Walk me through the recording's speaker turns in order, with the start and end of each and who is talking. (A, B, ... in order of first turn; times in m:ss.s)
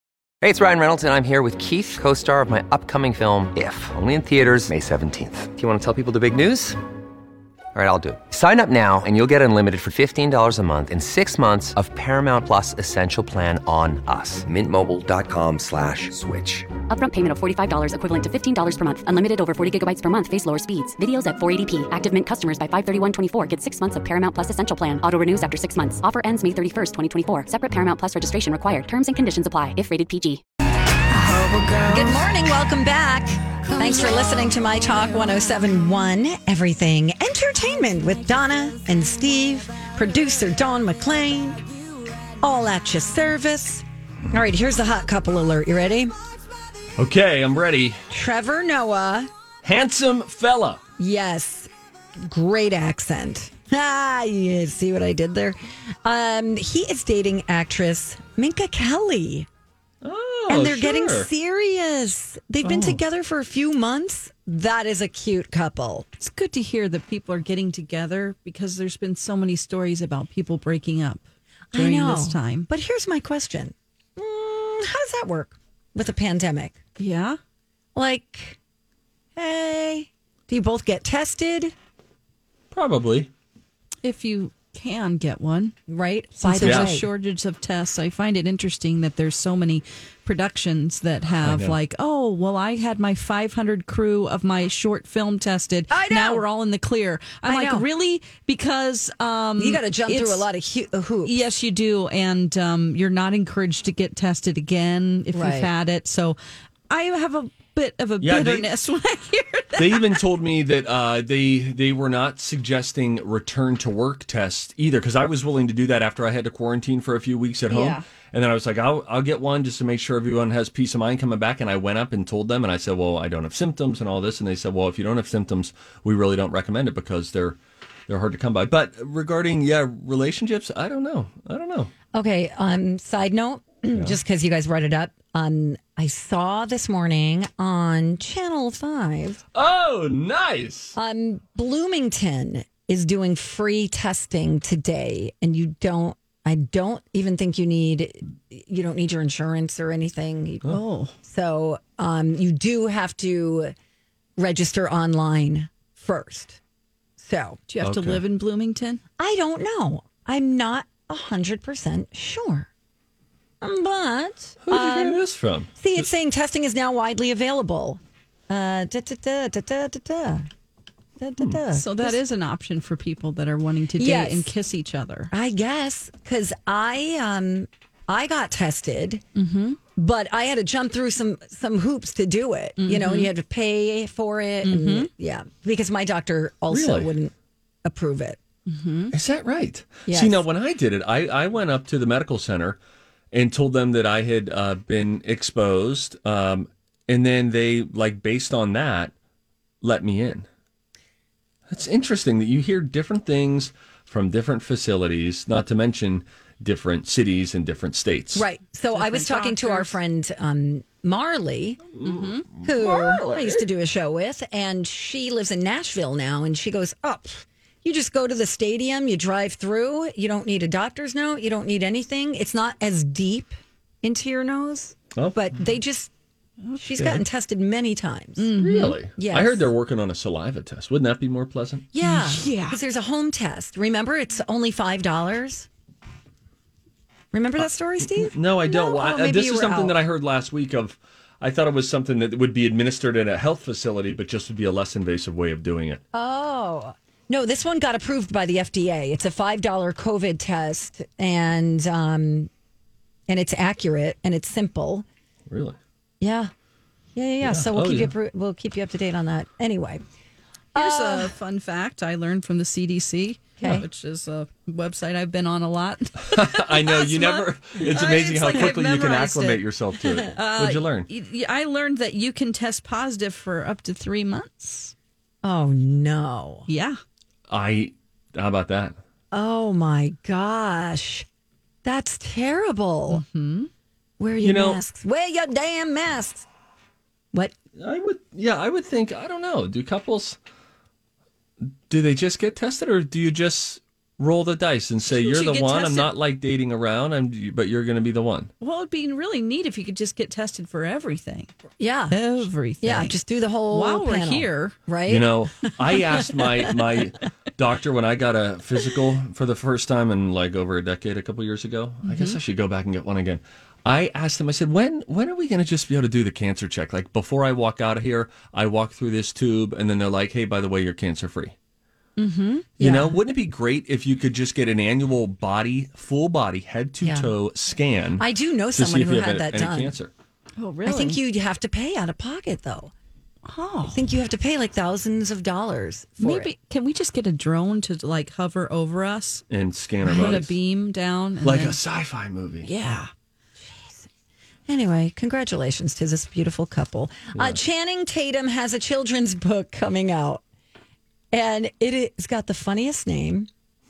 0:00.4-0:06.8 A
0:07.7-0:16.7 A
0:16.9-0:30.4 B
0:31.8-0:41.6 C
0:42.4-0:46.2 C
0:47.0-0:48.0 D
0:48.1-0:49.3 C
0:49.6-0:50.8 D
0:51.0-0:51.7 C
0:52.2-0:59.5 C
1:00.0-1:01.3 D
1:00.5-1:06.1 C
1:02.6-1:03.0 D
1:06.2-1:12.7 E
1:11.7-1:16.8 C
1:17.0-1:17.4 E
1:18.0-1:18.6 C
1:19.4-1:21.7 C
1:22.7-1:23.3 D
1:24.0-1:25.7 E
1:25.9-1:27.1 C
1:26.4-1:40.4 E
1:26.6-1:27.0 D
1:31.3-1:31.8 D
1:35.9-1:36.4 C
1:37.4-1:37.9 C
1:39.6-1:41.4 C
1:41.2-1:46.4 E
1:45.3-1:45.7 C
1:46.9-1:50.2 E
1:48.2-1:48.7 D
1:49.8-2:11.9 D
1:57.7-1:58.0 E
2:12.1-2:19.4 C
2:13.9-2:14.2 D
2:19.5-2:21.0 D
2:21.0-2:33.7 C
2:30.7-2:31.2 E
2:34.4-2:36.6 C
2:37.2-2:37.6 C
2:37.7-2:39.0 E
2:37.8-2:38.2 D
2:39.2-2:42.7 C
2:43.6-2:45.2 C
2:44.6-2:46.0 D
2:45.8-2:50.5 C
2:51.2-2:52.2 C
2:51.7-2:55.3 E
2:54.0-2:54.5 C
2:55.3-2:59.2 C
2:59.4-2:59.8 E
3:00.0-3:07.3 C
3:02.8-3:03.3 E
3:04.6-3:05.1 E
3:06.7-3:07.1 D
3:07.8-3:08.4 C
3:08.7-3:09.1 E
3:09.1-3:12.8 D
3:10.1-3:10.5 C
3:13.3-3:19.1 D
3:19.8-3:20.5 D
3:21.7-3:28.5 D
3:28.3-3:31.8 C
3:28.9-3:30.0 E
3:31.9-3:33.6 D
3:32.0-3:32.5 E
3:32.6-3:46.1 C
3:46.6-3:47.2 E
3:46.8-3:48.5 C
3:48.4-3:49.0 E
3:48.6-3:51.9 D
3:49.2-3:49.7 C
3:51.9-3:55.7 C
3:52.0-3:52.8 E
3:57.3-4:00.0 C
3:58.0-4:06.0 D
4:06.1-4:12.5 C
4:13.3-4:15.1 C
4:15.5-4:15.8 D
4:16.2-4:16.5 C
4:17.2-4:20.0 C
4:17.4-4:18.1 D
4:20.7-4:21.3 C
4:20.8-4:29.6 E
4:26.3-4:31.1 D
4:30.3-4:34.9 E
4:35.4-4:36.7 C
4:36.7-4:37.0 E
4:37.5-4:39.0 D
4:39.3-4:41.3 C
4:41.8-4:43.2 C
4:43.1-4:43.7 E
4:44.2-4:46.5 C
4:44.4-4:44.8 D
4:47.8-4:50.4 D
4:51.9-4:58.5 D
4:55.1-4:56.1 E
4:58.6-5:01.5 E
5:01.8-5:02.2 C
5:02.1-5:03.2 E
5:02.8-5:05.4 C
5:03.7-5:04.8 E
5:05.1-5:21.5 D
5:12.0-5:12.4 E
5:22.2-5:22.7 E
5:22.8-5:23.2 C
5:22.8-5:30.1 D
5:27.0-5:27.3 C
5:28.2-5:30.0 C
5:30.6-5:31.2 E
5:30.8-5:32.9 C
5:33.5-5:34.0 E
5:33.9-5:36.5 C
5:36.2-5:39.4 E
5:39.5-5:40.5 D
5:40.1-5:41.8 E
5:41.4-5:42.7 D
5:42.6-5:43.1 E
5:43.6-5:44.1 C
5:44.7-5:50.4 C
5:47.3-5:47.6 D
5:51.3-5:53.5 C